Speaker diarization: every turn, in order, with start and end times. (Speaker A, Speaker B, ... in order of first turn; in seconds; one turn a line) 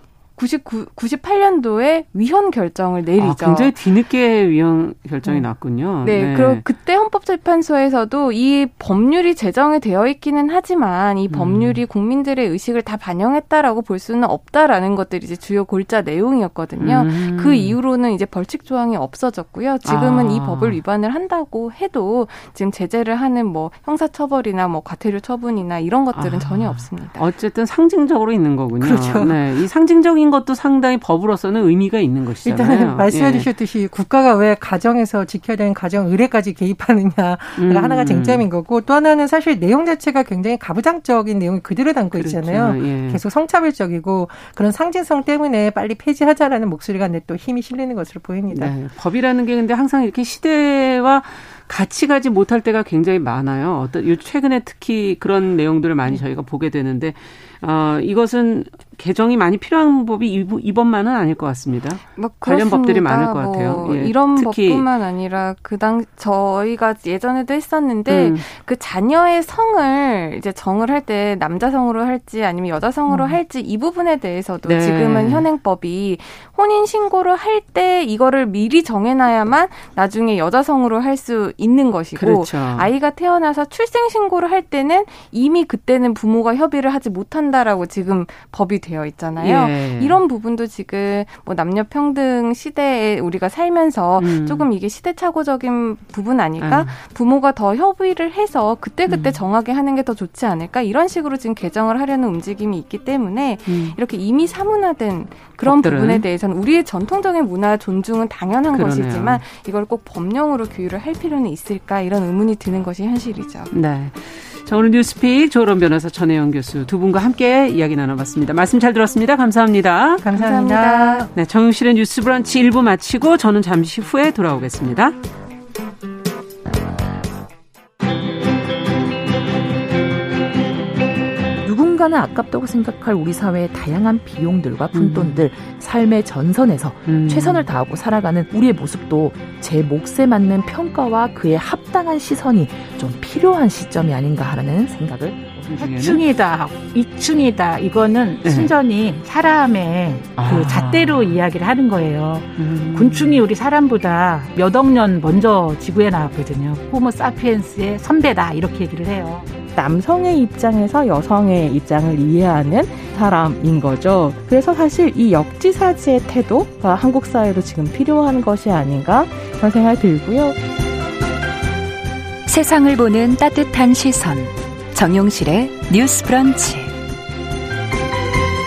Speaker A: 0.4-3.7
Speaker B: 3.2-6.6
Speaker A: 6.0-27.2
Speaker B: 11.3-11.8
Speaker B: 16.8-17.8
Speaker B: 19.8-20.8
Speaker B: 26.1-33.5
Speaker C: 28.8-29.6
Speaker C: 32.4-48.7
Speaker B: 37.5-38.4
Speaker B: 42.1-43.2
Speaker B: 48.5-64.8
Speaker A: 62.1-113.7
Speaker B: 68.1-68.4
Speaker B: 73.1-73.4
Speaker B: 74.6-75.5
Speaker B: 82.2-82.9
Speaker B: 89.4-90.2
Speaker B: 94.2-94.7
Speaker B: 96.6-96.9
Speaker B: 99.1-99.4
Speaker B: 103.7-104.0
Speaker B: 105.6-106.2
Speaker B: 108.7-109.4
Speaker B: 113.7-120.2
Speaker C: 120.2-121.3
Speaker A: 120.3-121.3
Speaker B: 121.3-125.2
Speaker D: 131.6-145.6
Speaker B: 134.9-135.4
Speaker B: 137.1-137.7
Speaker B: 145.7-146.2
Speaker E: 145.7-159.5
Speaker B: 148.4-148.7
Speaker B: 150.4-151.2
Speaker B: 152.6-153.4
Speaker F: 159.7-170.6
Speaker G: 172.5-176.9